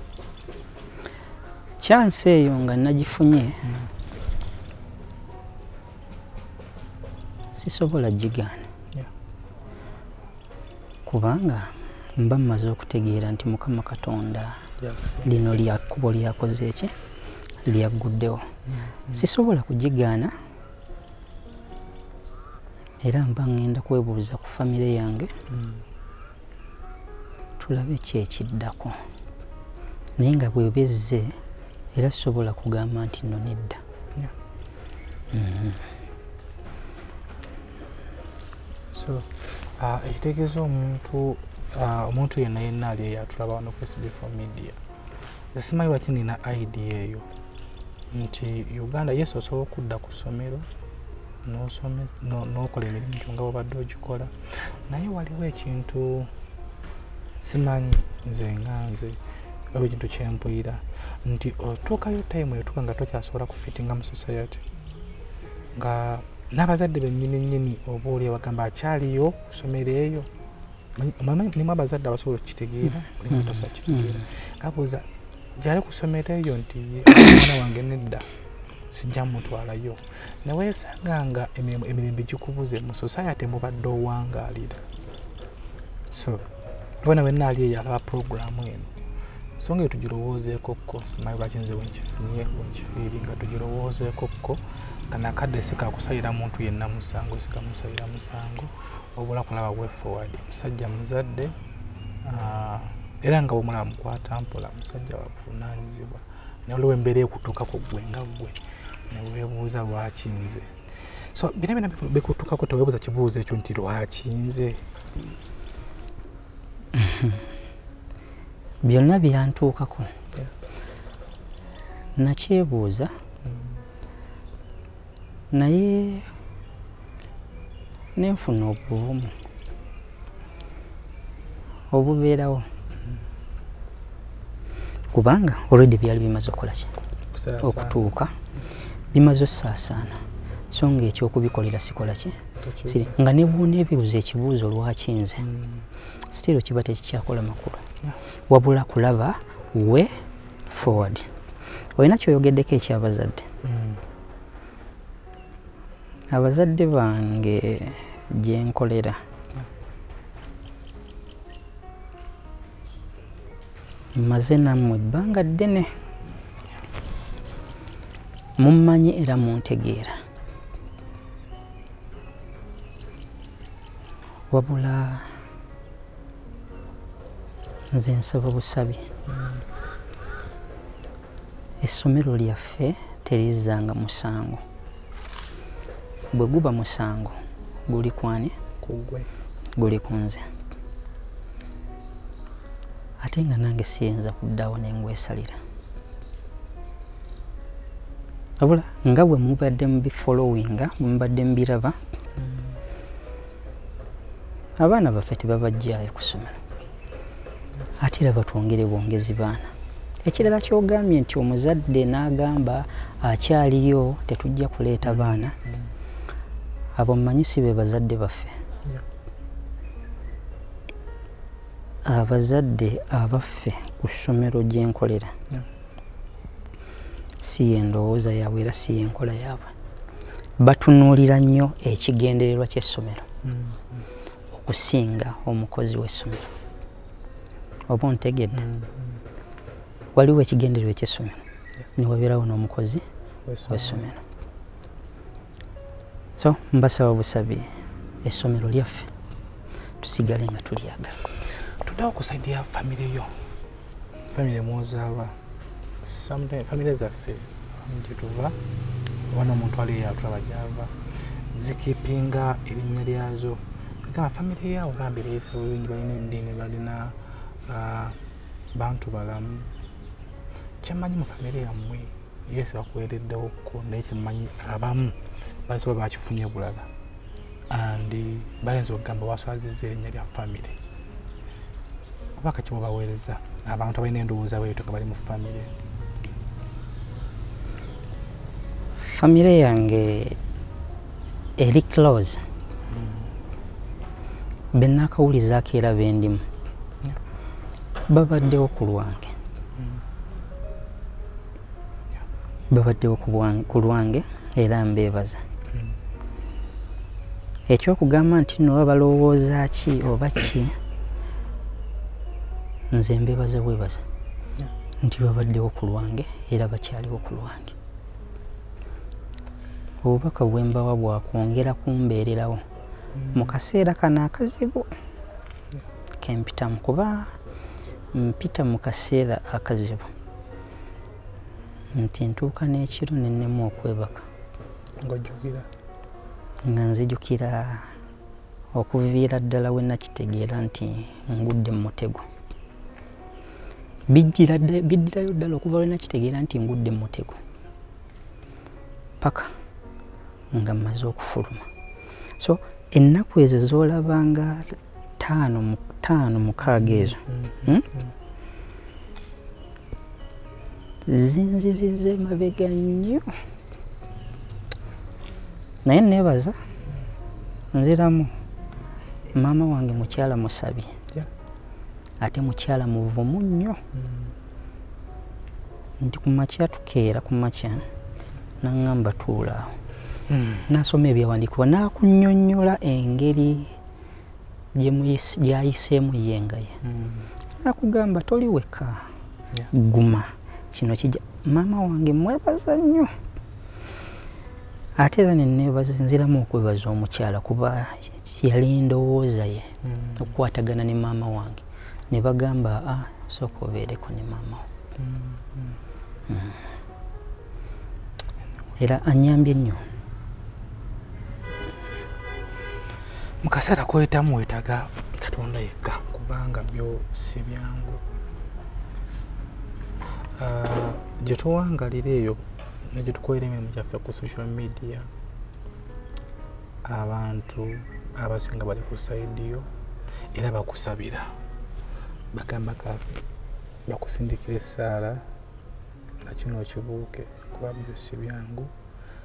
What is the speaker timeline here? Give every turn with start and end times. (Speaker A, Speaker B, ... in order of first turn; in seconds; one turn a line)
Speaker A: 1.8-3.6
Speaker B: 3.6-3.9
Speaker A: 7.5-8.6
Speaker A: 11.1-14.6
Speaker B: 14.8-15.6
Speaker A: 15.2-16.9
Speaker A: 17.6-18.4
Speaker B: 18.7-19.3
Speaker A: 19.1-20.3
Speaker A: 23.0-25.3
Speaker B: 25.5-25.8
Speaker A: 27.6-28.9
Speaker A: 30.2-31.3
Speaker A: 31.9-33.8
Speaker A: 35.3-35.8
Speaker B: 38.9-44.8
Speaker B: 45.5-47.3
Speaker B: 48.1-50.7
Speaker B: 51.4-54.3
Speaker B: 54.9-56.3
Speaker B: 57.4-59.2
Speaker B: 59.7-64.6
Speaker B: 65.7-70.3
Speaker B: 71.0-78.3
Speaker A: 73.3-74.2
Speaker B: 78.9-84.8
Speaker B: 86.1-86.4
Speaker B: 87.0-88.9
Speaker B: 89.6-101.5
Speaker B: 102.2-110.7
Speaker B: 111.3-114.8
Speaker A: 116.9-117.4
Speaker A: 118.8-120.1
Speaker A: 122.2-123.1
Speaker B: 123.4-123.8
Speaker A: 125.5-126.2
Speaker A: 128.2-129.3
Speaker A: 131.9-132.7
Speaker A: 135.1-136.9
Speaker B: 137.3-138.1
Speaker A: 137.6-138.3
Speaker A: 139.1-140.2
Speaker A: 140.7-145.4
Speaker B: 142.6-143.1
Speaker B: 145.4-145.9
Speaker A: 146.3-147.8
Speaker A: 148.5-150.1
Speaker A: 150.7-151.3
Speaker A: 152.0-153.4
Speaker B: 153.6-154.0
Speaker A: 156.3-159.2
Speaker A: 164.1-165.9
Speaker A: 168.6-170.2
Speaker A: 174.5-175.2
Speaker A: 177.9-179.0
Speaker B: 179.3-179.6
Speaker A: 181.8-184.6
Speaker A: 186.3-188.5
Speaker B: 188.8-189.3
Speaker A: 189.8-190.5
Speaker A: 193.2-195.6
Speaker A: 198.6-202.0
Speaker B: 202.4-202.8
Speaker A: 204.8-206.6
Speaker A: 208.0-209.7
Speaker A: 210.2-215.5
Speaker B: 215.0-215.9
Speaker A: 216.9-218.5
Speaker A: 222.0-225.3
Speaker A: 227.4-229.7
Speaker A: 230.6-233.2
Speaker B: 233.4-234.0
Speaker A: 234.5-236.5
Speaker A: 237.9-238.6
Speaker B: 238.5-239.2
Speaker A: 240.1-241.4
Speaker A: 241.9-243.0
Speaker B: 243.4-244.0
Speaker A: 243.7-244.2
Speaker A: 246.4-247.7
Speaker A: 248.2-249.1
Speaker A: 250.0-251.2
Speaker B: 251.8-253.3
Speaker B: 254.3-255.3
Speaker B: 256.0-258.6
Speaker B: 259.3-260.9
Speaker B: 261.5-268.2
Speaker B: 268.7-269.7
Speaker B: 270.8-276.9
Speaker B: 277.7-280.8
Speaker B: 282.4-285.7
Speaker A: 289.0-290.4
Speaker A: 291.6-292.4
Speaker B: 292.9-293.3
Speaker A: 294.7-296.4
Speaker A: 298.1-299.3
Speaker B: 299.8-300.0
Speaker A: 302.7-305.4
Speaker A: 307.7-310.7
Speaker A: 312.9-314.0
Speaker A: 315.0-317.7
Speaker A: 320.0-322.6
Speaker B: 323.1-323.6
Speaker A: 323.3-324.9
Speaker A: 326.2-327.3
Speaker A: 328.1-330.1
Speaker A: 331.9-334.2
Speaker B: 335.0-335.7
Speaker A: 336.6-337.8
Speaker A: 338.7-342.2
Speaker A: 344.1-347.4
Speaker A: 349.2-349.5
Speaker A: 350.5-351.6
Speaker A: 352.4-357.9
Speaker B: 356.6-358.1
Speaker A: 361.1-363.3
Speaker A: 365.8-366.6
Speaker A: 367.7-368.3
Speaker A: 369.3-370.9
Speaker A: 372.2-373.8
Speaker B: 373.9-374.3
Speaker A: 376.0-377.8
Speaker A: 378.6-379.7
Speaker B: 380.3-380.6
Speaker A: 380.7-383.7
Speaker A: 384.7-386.8
Speaker B: 386.8-387.3
Speaker A: 387.6-389.0
Speaker A: 389.7-393.1
Speaker A: 395.0-404.6
Speaker B: 399.8-400.3
Speaker B: 405.0-405.8
Speaker A: 406.3-406.5
Speaker A: 408.8-409.8
Speaker B: 413.4-418.0
Speaker B: 420.4-425.1
Speaker B: 426.8-429.7
Speaker B: 430.3-431.3
Speaker B: 432.3-433.2
Speaker B: 433.9-435.2
Speaker B: 436.2-438.7